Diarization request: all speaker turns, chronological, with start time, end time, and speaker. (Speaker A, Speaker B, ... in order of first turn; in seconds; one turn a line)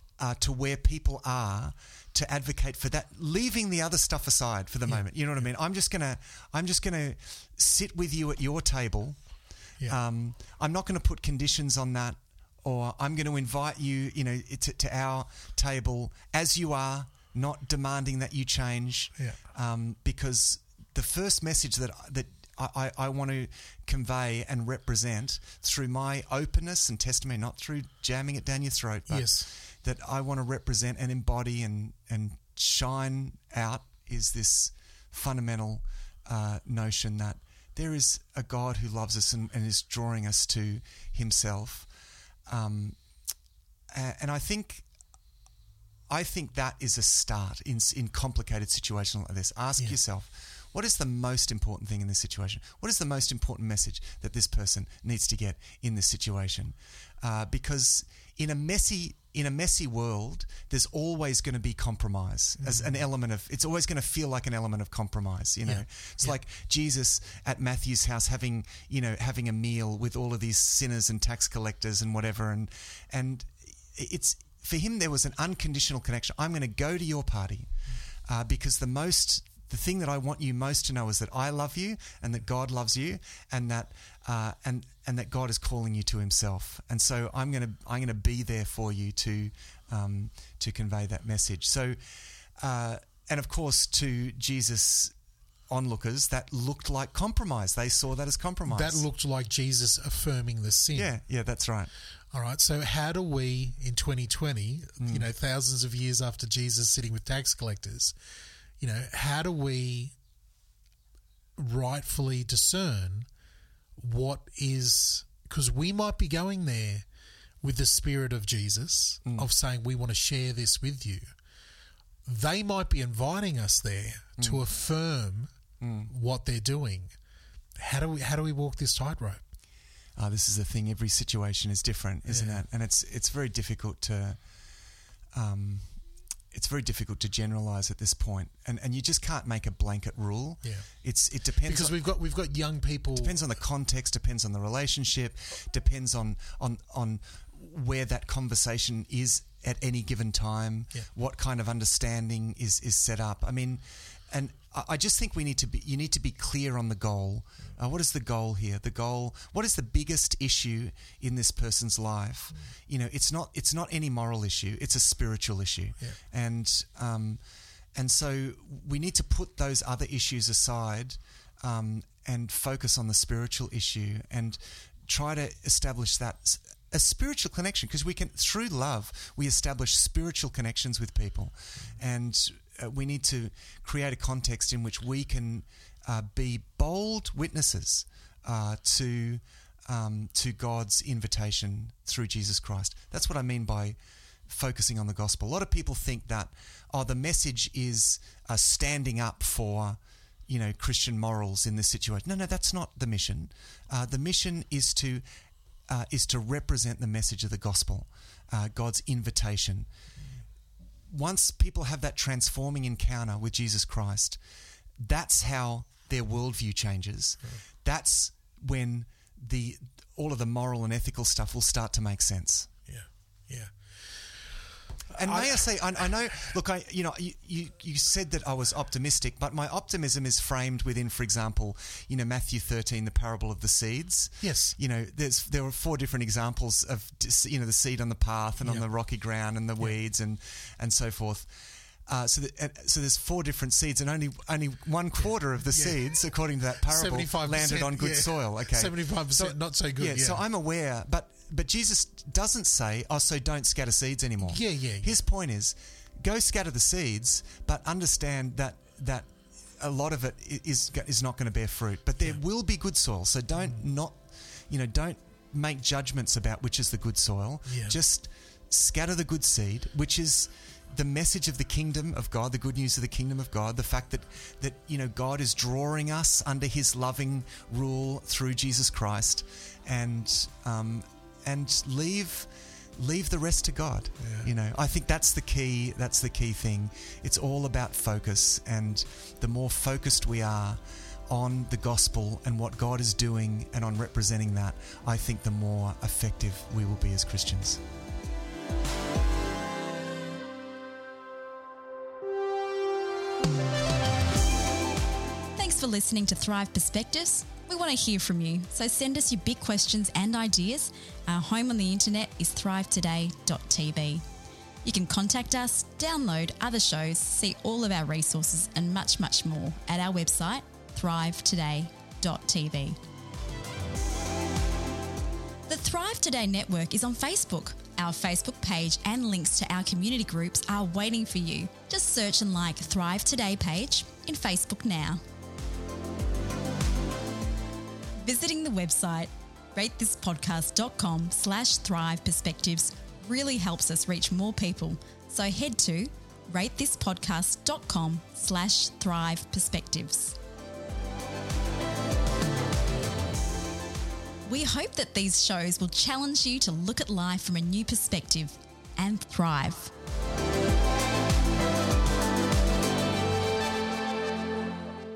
Speaker A: 0.2-9.3
Speaker B: 4.9-5.4
Speaker A: 9.8-41.9
Speaker B: 29.1-29.5
Speaker A: 42.5-43.0
Speaker A: 43.9-44.9
Speaker A: 46.1-77.7
Speaker B: 62.6-63.0
Speaker B: 65.6-66.3
Speaker A: 78.2-92.0
Speaker A: 92.5-95.1
Speaker A: 95.7-99.0
Speaker B: 98.7-101.1
Speaker A: 100.9-101.9
Speaker B: 102.3-108.2
Speaker A: 105.0-105.3
Speaker B: 108.8-110.2
Speaker B: 111.5-113.3
Speaker B: 114.0-117.0
Speaker B: 117.6-121.2
Speaker B: 122.2-125.5
Speaker A: 124.4-124.6
Speaker A: 125.8-126.1
Speaker B: 126.0-127.1
Speaker B: 127.8-129.4
Speaker A: 130.2-134.4
Speaker B: 132.3-132.6
Speaker A: 135.3-136.0
Speaker A: 136.5-141.9
Speaker B: 140.6-140.9
Speaker B: 141.6-143.4
Speaker A: 143.2-167.4
Speaker A: 167.9-205.2
Speaker A: 205.9-209.9
Speaker A: 211.1-214.4
Speaker A: 215.0-222.7
Speaker B: 222.9-224.4
Speaker B: 225.1-225.7
Speaker A: 225.1-297.8
Speaker B: 234.4-234.8
Speaker B: 245.7-246.0
Speaker B: 246.8-250.4
Speaker B: 254.4-255.2
Speaker B: 267.7-268.0
Speaker B: 284.2-284.5
Speaker C: 305.6-314.2
Speaker C: 314.8-323.0
Speaker C: 325.7-335.2
Speaker C: 338.2-350.4
Speaker C: 354.4-359.9